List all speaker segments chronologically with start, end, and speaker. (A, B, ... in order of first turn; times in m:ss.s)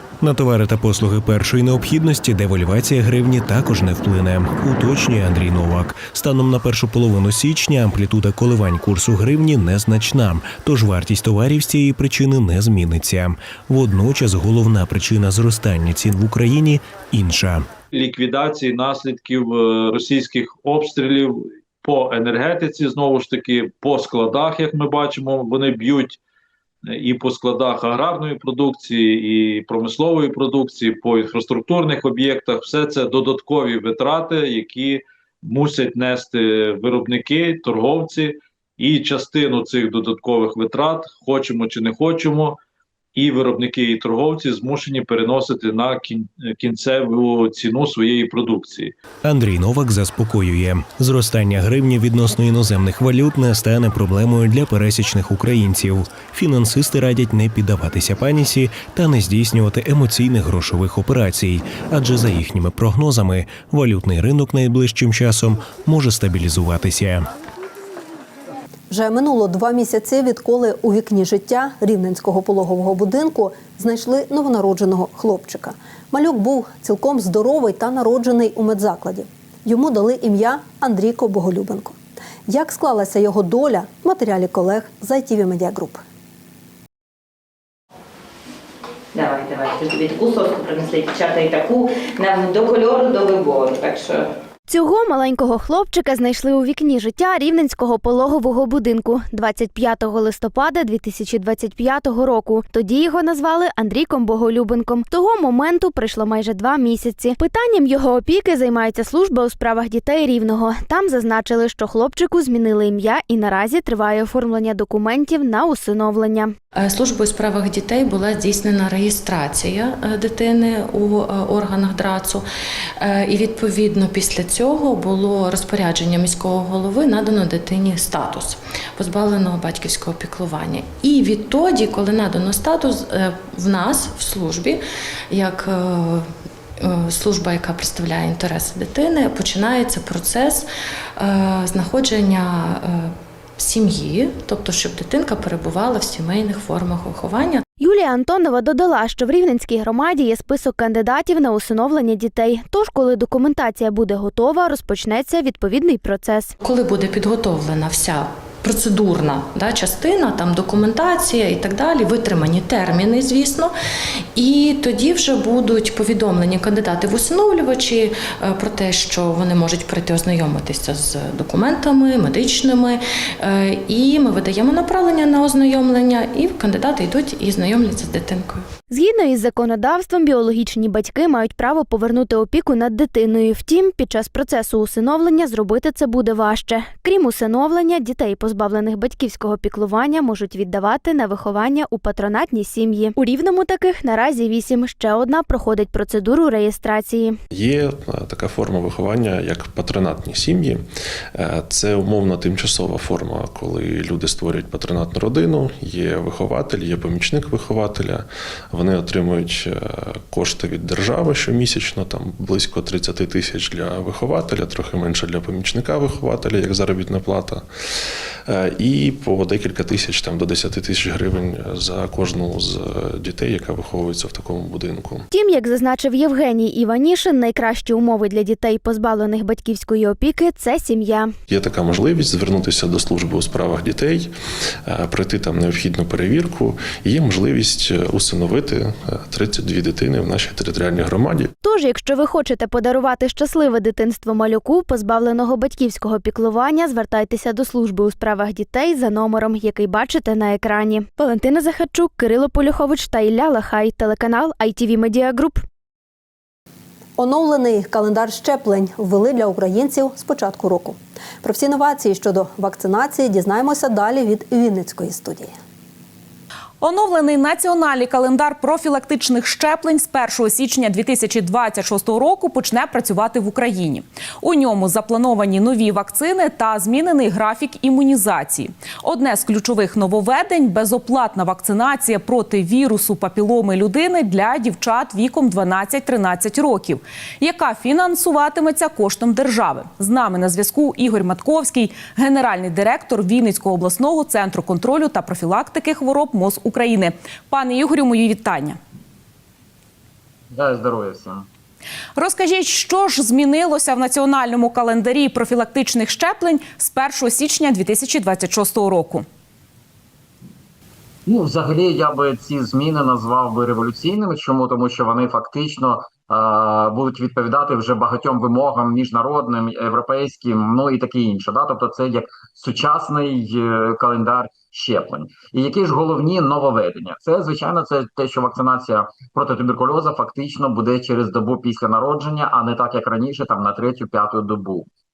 0:00.2-0:17.7 A
0:17.9-0:26.2 B
0:26.9-0:42.6 B
0:43.1-0:48.9 B
0:49.2-1:07.3 A
1:08.9-1:26.0 C
1:29.1-1:34.3 D
1:34.7-1:56.5 E
1:56.8-2:02.5 F
2:03.0-2:20.6 F
2:21.2-2:27.6 F
2:27.8-2:36.5 E
2:36.6-2:43.7 F
2:44.3-2:58.6 F
2:58.9-3:17.4 E
3:17.5-3:37.6 G
3:38.5-3:45.3 G
3:45.3-3:51.3 E
3:51.5-3:54.3 G
3:54.9-4:01.5 G
4:01.6-4:15.6 E
4:17.2-4:25.6 C
4:26.8-4:58.8 H
5:00.5-5:01.4 I
5:02.2-5:09.2 H
5:11.2-5:34.9 I